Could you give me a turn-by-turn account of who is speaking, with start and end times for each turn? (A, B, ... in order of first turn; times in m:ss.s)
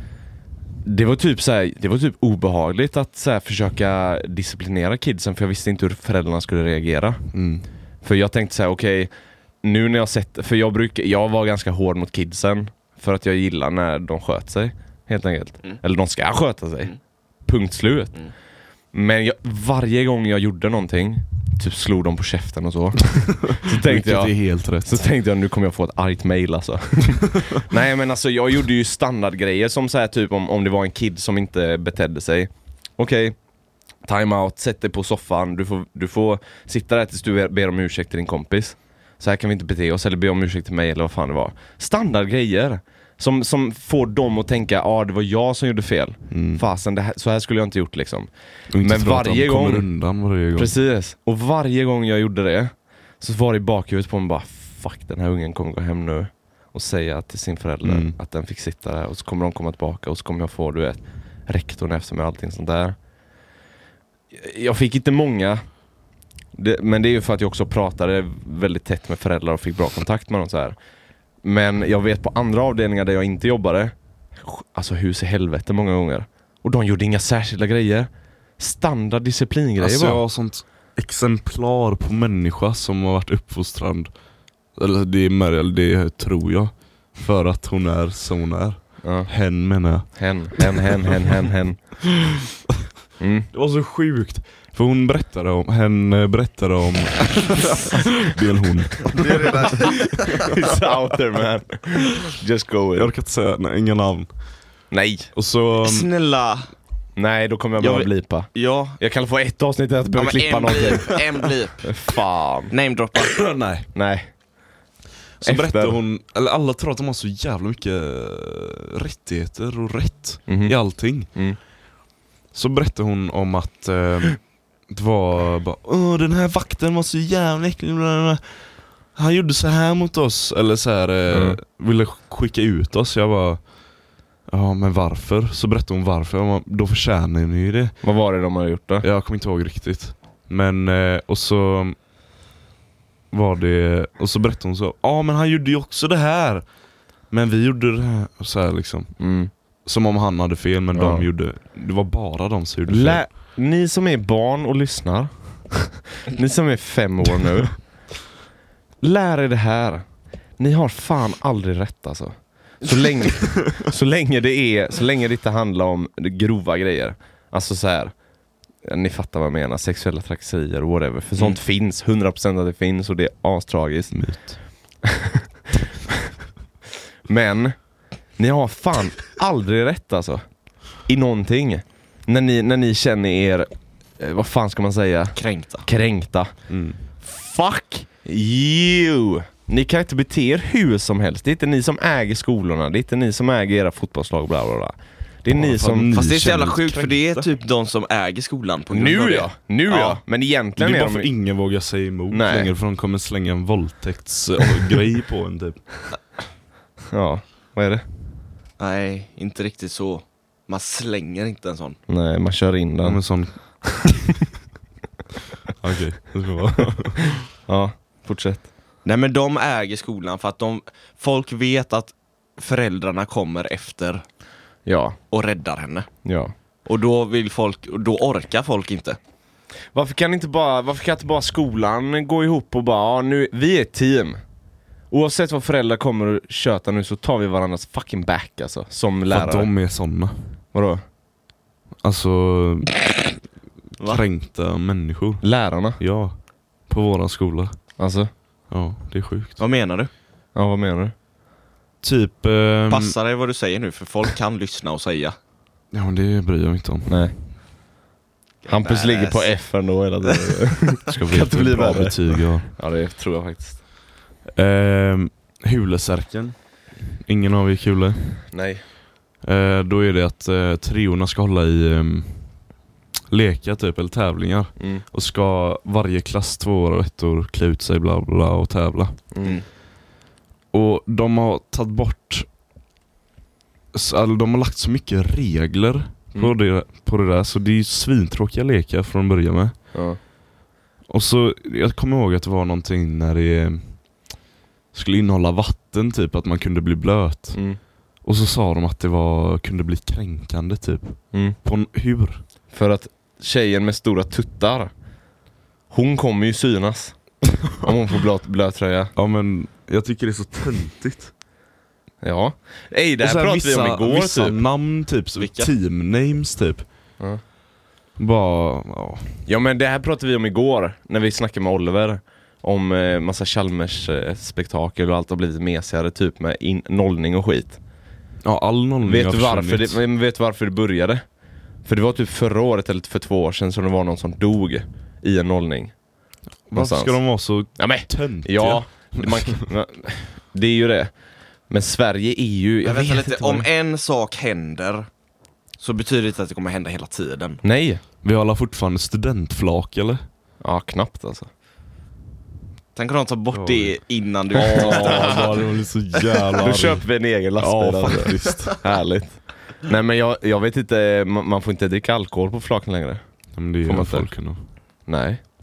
0:00.8-0:07.2 A
0:07.3-0:07.7 B
0:08.0-0:09.1 A
0:09.6-0:18.3 A
0:18.9-0:33.4 A
0:23.4-0:25.0 B
0:34.0-0:49.9 A
0:46.3-0:46.6 B
0:48.7-0:50.7 B
0:50.6-1:03.0 A
0:57.8-0:58.2 B
1:04.3-1:05.6 A
1:06.6-1:10.8 A
1:11.4-1:20.2 A
1:19.8-1:24.1 B
1:24.8-1:31.2 B
1:29.0-1:29.3 A
1:30.1-1:31.9 A
1:33.2-1:33.5 A
1:33.5-1:40.7 B
1:39.1-1:40.5 C
1:39.3-1:39.7 A
1:40.3-1:43.1 A
1:43.0-1:44.3 B
1:44.9-1:45.3 A
1:45.4-1:46.1 B
1:45.8-1:46.7 C
1:47.2-1:51.2 A
1:47.8-1:49.0 C
1:50.2-1:51.9 C
1:51.8-1:52.7 A
1:52.7-1:53.4 C
1:53.2-1:53.9 B
1:53.9-1:54.3 A
1:55.4-2:01.3 B
1:55.4-1:56.0 A
2:00.5-2:01.6 A
2:02.5-2:13.6 B
2:11.3-2:11.6 A
2:14.5-2:18.0 B
2:18.0-2:19.1 A
2:19.0-2:22.0 B
2:23.3-2:26.6 B
2:27.3-2:29.2 B
2:29.2-2:29.5 A
2:29.8-2:33.3 B
2:30.9-2:31.3 A
2:32.9-2:37.8 A
2:39.0-2:40.0 A
2:40.6-2:48.2 A
2:48.8-2:54.2 A
2:54.1-2:54.6 B
2:55.0-2:55.4 A
2:57.3-2:57.8 A
2:58.4-3:00.4 A
3:01.0-3:06.5 A
3:05.4-3:05.9 C
3:06.7-3:07.0 B
3:07.2-3:16.2 A
3:15.5-3:17.5 B
3:16.1-3:20.2 C
3:18.9-3:21.3 A
3:20.8-3:26.1 B
3:22.3-3:22.7 A
3:27.1-3:28.0 A
3:28.8-3:32.0 C
3:32.1-3:33.2 A
3:33.0-3:34.1 B
3:35.8-3:37.4 B
3:36.9-3:38.7 A
3:39.0-3:44.2 C
3:44.9-3:45.2 A
3:45.3-3:46.1 C
3:46.2-3:46.5 A
3:46.8-3:49.2 C
3:49.9-3:54.4 A
3:55.1-3:59.7 A
3:59.3-4:00.6 B
4:00.7-4:01.0 A
4:02.0-4:03.0 B
4:04.0-4:06.4 B
4:05.4-4:06.0 A
4:06.9-4:07.8 B
4:08.0-4:08.3 A
4:08.7-4:09.6 B
4:09.6-4:10.1 C
4:10.6-4:11.1 A
4:12.0-4:13.2 B
4:12.9-4:15.4 C
4:15.9-4:17.2 B
4:17.1-4:17.4 A
4:18.6-4:19.5 C
4:18.7-4:23.8 A
4:20.3-4:20.6 C
4:21.1-4:22.7 B
4:24.6-4:26.6 B
4:27.2-4:28.4 B
4:28.5-4:28.8 A
4:29.4-4:32.6 B
4:33.3-4:39.2 B
4:39.3-4:39.6 A
4:40.7-4:42.5 B
4:43.9-4:49.8 B
4:49.9-4:50.2 A
4:51.1-4:54.1 B
4:54.9-4:57.7 B
4:57.5-4:57.8 A
4:58.2-5:02.4 B
5:02.7-5:04.9 A
5:05.9-5:09.1 A
5:09.2-5:11.3 B
5:12.2-5:14.6 A
5:13.2-5:16.9 B
5:15.4-5:15.7 C
5:18.2-5:19.4 B
5:19.5-5:27.8 A
5:28.4-5:30.0 B
5:29.0-5:31.2 A
5:31.8-5:35.9 A
5:36.7-5:39.7 B
5:36.7-5:37.2 A
5:37.8-5:41.1 A
5:41.7-5:43.7 A
5:42.8-5:45.1 C
5:45.8-5:47.6 C
5:47.6-5:48.0 A
5:48.2-5:50.2 B
5:50.6-5:51.5 A
5:53.0-5:55.6 C
5:53.5-5:58.8 B
5:54.8-5:55.6 A
5:56.6-6:03.2 A
6:03.5-6:04.6 B
6:03.8-6:04.3 A
6:05.1-6:05.4 A